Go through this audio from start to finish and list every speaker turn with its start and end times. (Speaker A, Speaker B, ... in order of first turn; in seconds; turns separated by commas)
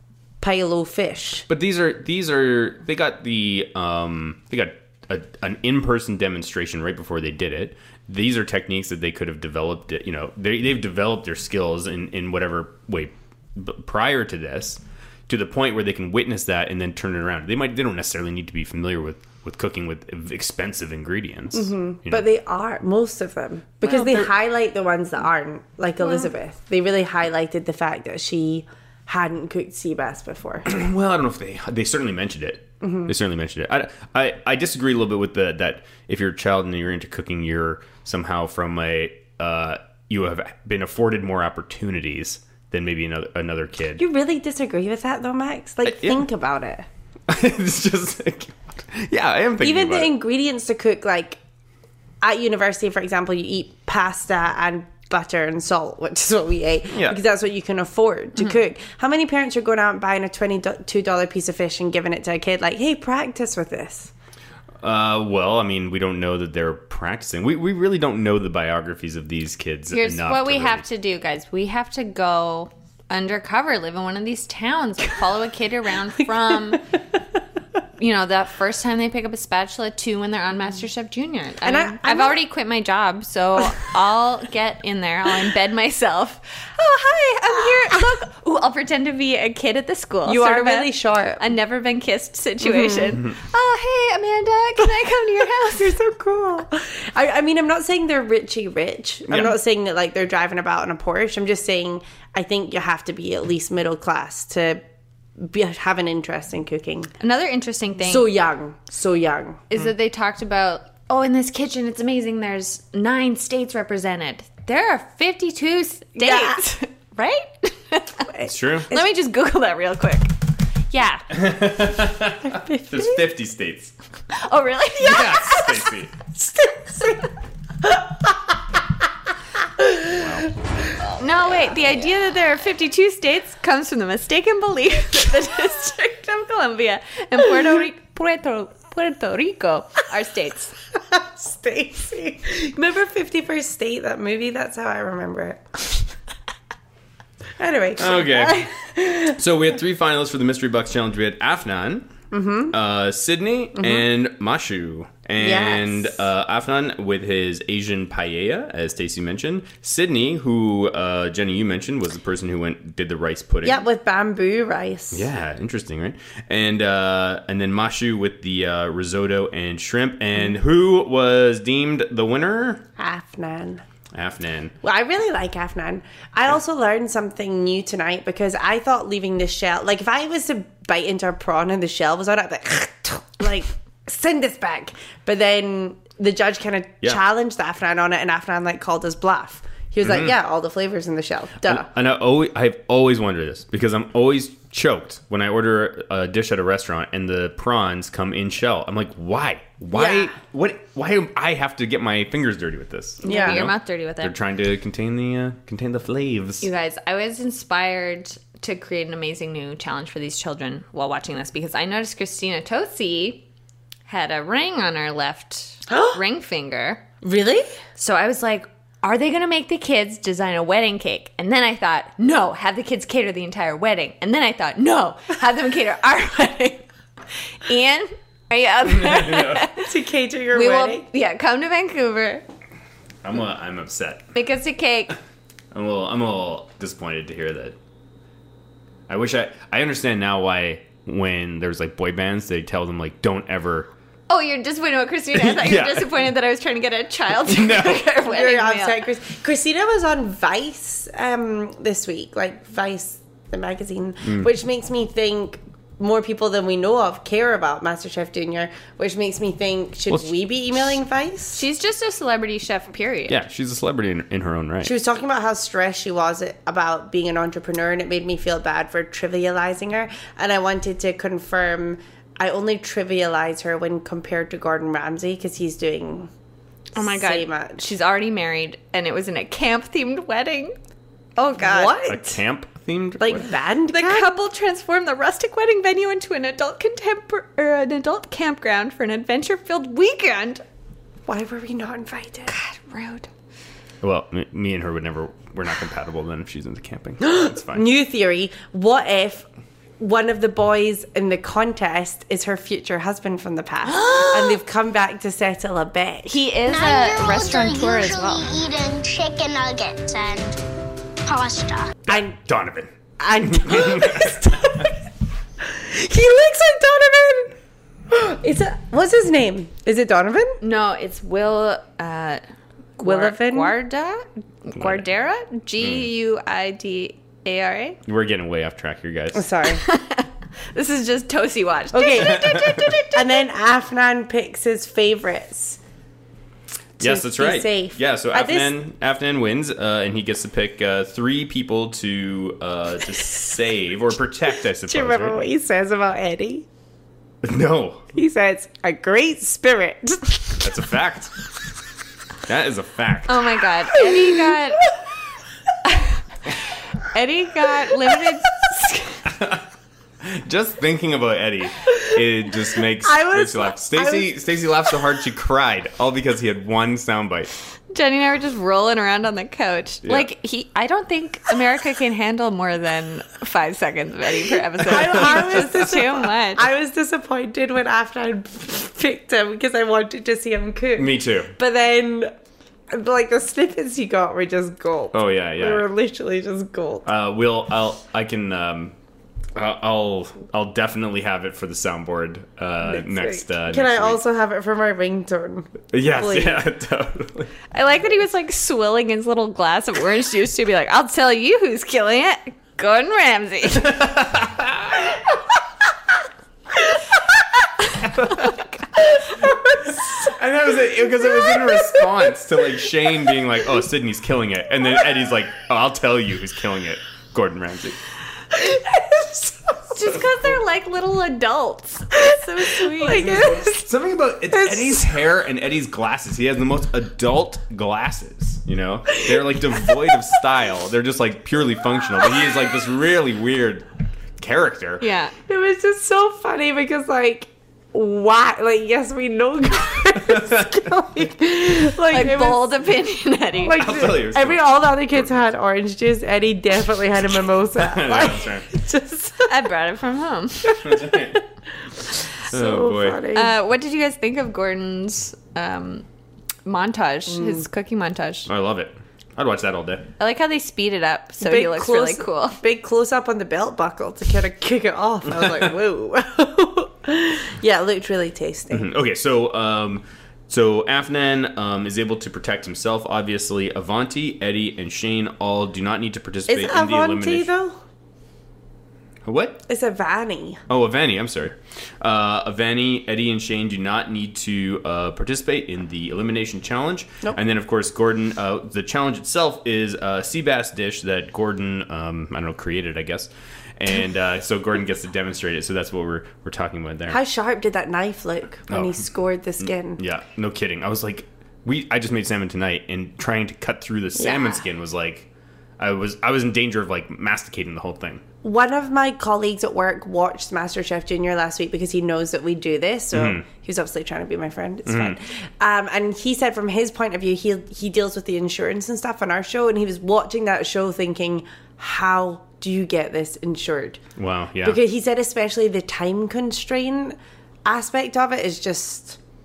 Speaker A: 0.4-1.5, Speaker B: 1.5-22.2, Speaker A: 21.5-30.7, Speaker B: 23.9-24.3, Speaker B: 30.7-44.0, Speaker A: 32.8-33.1, Speaker A: 44.0-46.9, Speaker B: 45.9-46.2, Speaker B: 47.3-50.1, Speaker A: 49.6-51.4, Speaker A: 52.2-64.1, Speaker B: 56.9-57.2, Speaker B: 64.8-70.8, Speaker C: 69.9-76.8, Speaker C: 78.0-96.0, Speaker A: 81.6-82.4, Speaker A: 90.2-91.4, Speaker A: 92.6-93.2, Speaker A: 95.7-104.8, Speaker B: 99.3-99.5, Speaker A: 105.4-107.1, Speaker C: 107.2-108.3, Speaker A: 108.0-109.7, Speaker C: 109.7-118.3, Speaker A: 116.2-116.6, Speaker A: 118.3-119.0, Speaker B: 118.5-118.9, Speaker C: 118.9-120.3, Speaker C: 120.9-121.2, Speaker B: 121.3-123.9, Speaker A: 122.4-123.3, Speaker C: 124.4-125.9, Speaker B: 125.0-126.1, Speaker A: 126.3-127.3, Speaker A: 127.8-128.3, Speaker A: 129.8-130.3, Speaker B: 130.1-130.5, Speaker C: 131.2-140.8, Speaker A: 141.0-145.6, Speaker A: 147.6-149.2, Speaker B: 148.0-148.7, Speaker B: 149.2-152.1, Speaker A: 152.3-152.8, Speaker B: 152.7-163.8, Speaker A: 153.8-154.1, Speaker A: 155.4-156.2, Speaker A: 163.6-165.3, Speaker B: 165.1-172.8, Speaker A: 173.0-173.8, Speaker B: 174.1-174.7, Speaker A: 174.8-191.9, Speaker B: 190.0-190.3, Speaker B: 191.7-206.7, Speaker A: 199.9-200.3, Speaker A: 203.2-203.7, Speaker C: 203.3-204.3, Speaker C: 206.6-213.4, Speaker C: 214.1-217.1, Speaker A: 215.9-216.2, Speaker A: 217.2-217.7, Speaker C: 218.0-226.8, Speaker C: 227.7-229.9, Speaker B: 228.9-229.7, Speaker A: 229.8-231.1, Speaker C: 230.5-232.4, Speaker B: 233.2-234.3, Speaker C: 234.3-235.2, Speaker B: 235.7-237.8, Speaker B: 239.1-243.9, Speaker C: 244.3-249.1, Speaker B: 245.3-246.1, Speaker B: 247.5-248.1, Speaker A: 248.2-261.6, Speaker C: 261.5-263.4, Speaker B: 263.3-264.9, Speaker A: 264.8-276.3, Speaker C: 276.9-280.8, Speaker A: 277.0-277.9, Speaker C: 281.4-282.1, Speaker A: 281.6-282.4, Speaker B: 282.1-283.5, Speaker A: 283.2-284.3, Speaker C: 283.9-290.6, Speaker A: 291.3-292.5, Speaker C: 292.5-293.3, Speaker B: 294.0-297.9, Speaker A: 297.2-299.5, Speaker A: 300.0-306.4, Speaker C: 303.9-304.6, Speaker C: 306.3-308.5, Speaker D: 306.7-310.6, Speaker D: 311.2-312.0, Speaker B: 312.1-314.4, Speaker A: 312.1-312.4, Speaker A: 313.2-315.0, Speaker A: 315.6-317.6, Speaker A: 318.1-320.6, Speaker C: 320.6-322.4, Speaker C: 323.0-328.0, Speaker A: 323.0-323.7, Speaker B: 324.8-325.0, Speaker B: 325.8-326.1, Speaker B: 328.1-329.5, Speaker A: 329.3-329.8, Speaker C: 329.7-333.5, Speaker A: 331.9-335.8, Speaker B: 332.1-332.9, Speaker A: 337.0-338.7, Speaker B: 337.0-345.4, Speaker A: 344.8-346.7, Speaker B: 347.4-348.1, Speaker A: 348.1-350.7, Speaker B: 350.6-351.3, Speaker B: 352.5-353.5, Speaker C: 353.3-354.9, Speaker A: 354.0-354.6, Speaker C: 355.9-356.2, Speaker C: 357.0-359.2, Speaker B: 359.3-359.6, Speaker B: 360.2-367.5, Speaker A: 363.0-364.9, Speaker C: 367.9-376.7, Speaker A: 374.8-382.3, Speaker B: 374.9-375.8, Speaker B: 381.0-381.5, Speaker A: 382.9-387.1, Speaker B: 385.1-385.9, Speaker B: 387.1-388.9, Speaker B: 389.6-394.2, Speaker A: 392.8-396.7, Speaker B: 395.9-397.5, Speaker C: 397.7-404.0, Speaker B: 403.8-405.1, Speaker B: 408.0-408.5, Speaker B: 409.9-418.0, Speaker A: 411.2-412.0, Speaker A: 418.5-420.0, Speaker C: 419.9-423.5, Speaker A: 422.2-423.9, Speaker B: 423.1-433.9, Speaker A: 424.5-425.1, Speaker A: 429.3-430.3, Speaker A: 432.2-432.6, Speaker B: 434.4-435.1, Speaker C: 435.0-435.3, Speaker A: 435.5-442.8, Speaker B: 440.3-440.9, Speaker C: 442.0-444.0, Speaker A: 443.6-449.6, Speaker B: 443.7-445.3, Speaker B: 447.8-448.7, Speaker C: 449.5-450.9, Speaker A: 450.7-451.4, Speaker B: 450.8-451.4, Speaker B: 452.5-453.3, Speaker A: 452.5-453.6, Speaker C: 453.3-456.1, Speaker C: 456.6-458.5, Speaker A: 457.3-457.6, Speaker B: 458.5-460.1, Speaker C: 460.2-462.6, Speaker A: 461.4-468.9, Speaker B: 468.7-477.5, Speaker A: 476.5-477.8, Speaker B: 479.2-479.6, Speaker A: 479.7-480.6, Speaker B: 480.7-497.2, Speaker A: 497.1-500.0, Speaker B: 498.7-499.0, Speaker B: 499.6-505.3, Speaker A: 504.2-504.6, Speaker B: 505.8-508.2, Speaker A: 508.4-524.0, Speaker B: 513.1-513.5, Speaker B: 514.9-515.2, Speaker B: 524.2-524.8, Speaker A: 524.6-529.2